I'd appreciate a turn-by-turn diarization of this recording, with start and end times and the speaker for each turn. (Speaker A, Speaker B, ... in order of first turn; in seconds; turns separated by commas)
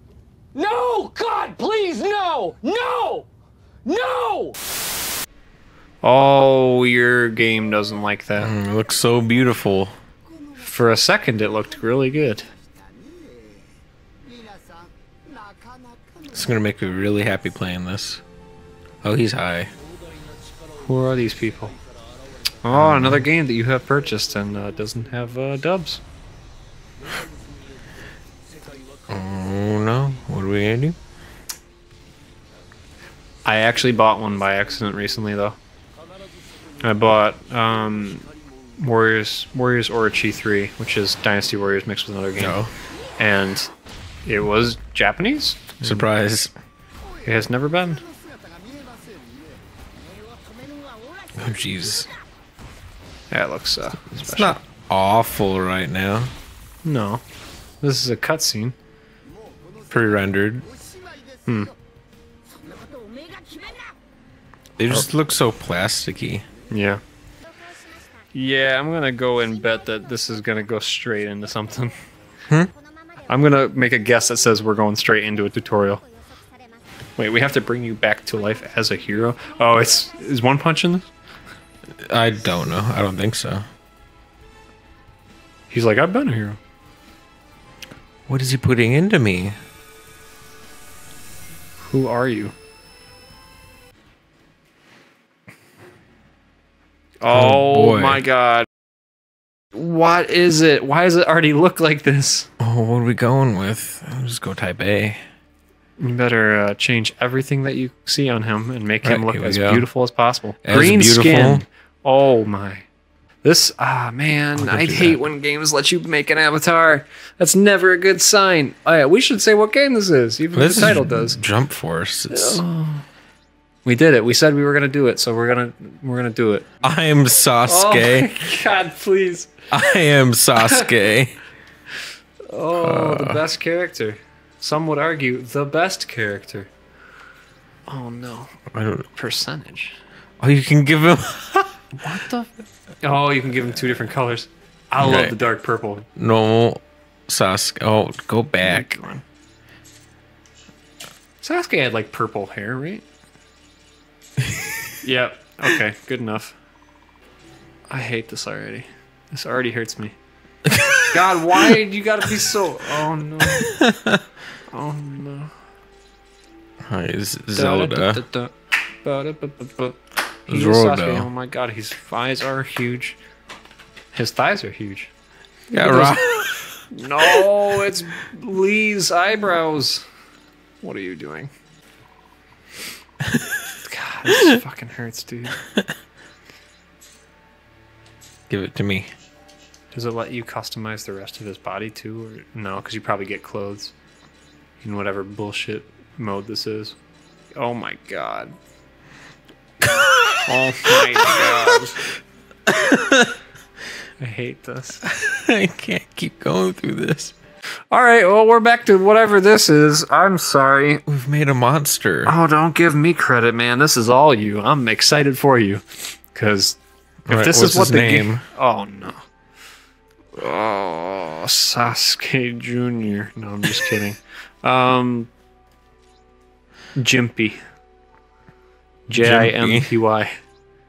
Speaker A: 0.5-3.3, Speaker A: 3.9-4.6, Speaker B: 6.0-8.5, Speaker C: 8.4-9.9, Speaker B: 10.6-12.5, Speaker C: 16.3-18.2, Speaker C: 19.0-19.7, Speaker B: 20.8-21.8, Speaker B: 22.6-26.0, Speaker C: 22.7-23.3, Speaker C: 29.1-31.0, Speaker B: 33.5-35.6, Speaker B: 36.8-42.6, Speaker C: 42.4-42.7, Speaker B: 43.2-43.7, Speaker B: 44.2-46.1, Speaker C: 45.8-46.5, Speaker B: 47.2-48.0, Speaker C: 51.4-52.1, Speaker B: 53.3-54.6, Speaker C: 54.2-56.3, Speaker B: 56.8-57.2, Speaker B: 57.8-58.8, Speaker C: 59.9-60.7, Speaker B: 61.5-61.7, Speaker C: 64.8-66.5, Speaker B: 66.7-67.0, Speaker B: 68.3-72.0, Speaker B: 73.3-76.0, Speaker B: 77.2-81.1, Speaker C: 82.1-83.7, Speaker B: 85.7-86.6, Speaker C: 88.3-89.6, Speaker B: 91.8-92.5, Speaker B: 97.2-98.7, Speaker C: 97.3-98.2, Speaker B: 99.7-102.5, Speaker C: 102.6-105.2, Speaker B: 106.0-112.9, Speaker C: 109.0-109.9, Speaker C: 110.6-111.7, Speaker B: 113.4-121.4, Speaker C: 114.6-115.2, Speaker C: 120.5-122.6, Speaker B: 122.3-123.0, Speaker B: 123.8-126.7, Speaker C: 126.8-128.3, Speaker B: 127.7-129.6, Speaker C: 129.7-131.4, Speaker B: 130.6-130.9, Speaker B: 132.5-136.7, Speaker C: 132.8-133.4, Speaker B: 137.9-140.0, Speaker C: 138.7-139.1, Speaker C: 140.4-141.7, Speaker B: 141.9-142.5, Speaker B: 143.0-146.1, Speaker C: 145.0-145.4, Speaker C: 146.2-148.9, Speaker B: 148.6-149.2, Speaker B: 151.4-153.0, Speaker C: 154.4-154.8, Speaker B: 155.0-156.6, Speaker B: 157.9-160.2, Speaker C: 160.7-161.1, Speaker B: 161.1-163.7, Speaker C: 163.4-164.2, Speaker B: 164.7-165.5, Speaker C: 166.9-168.2, Speaker B: 167.5-173.2, Speaker C: 170.5-171.3, Speaker B: 174.1-175.1, Speaker C: 175.7-176.5, Speaker B: 175.8-176.2, Speaker B: 176.9-180.1, Speaker B: 180.8-181.5, Speaker B: 183.8-185.6, Speaker C: 188.5-189.1, Speaker B: 189.9-193.9, Speaker B: 194.8-197.0, Speaker B: 197.6-198.6, Speaker C: 199.8-201.6, Speaker B: 200.4-202.1, Speaker C: 202.7-203.4, Speaker B: 204.2-205.0, Speaker C: 205.0-207.3, Speaker B: 207.9-211.0, Speaker C: 211.1-212.4, Speaker B: 212.2-216.8, Speaker C: 217.3-218.4, Speaker B: 217.3-219.2, Speaker B: 220.4-225.3, Speaker B: 227.0-227.6, Speaker B: 229.1-230.4, Speaker C: 229.1-229.9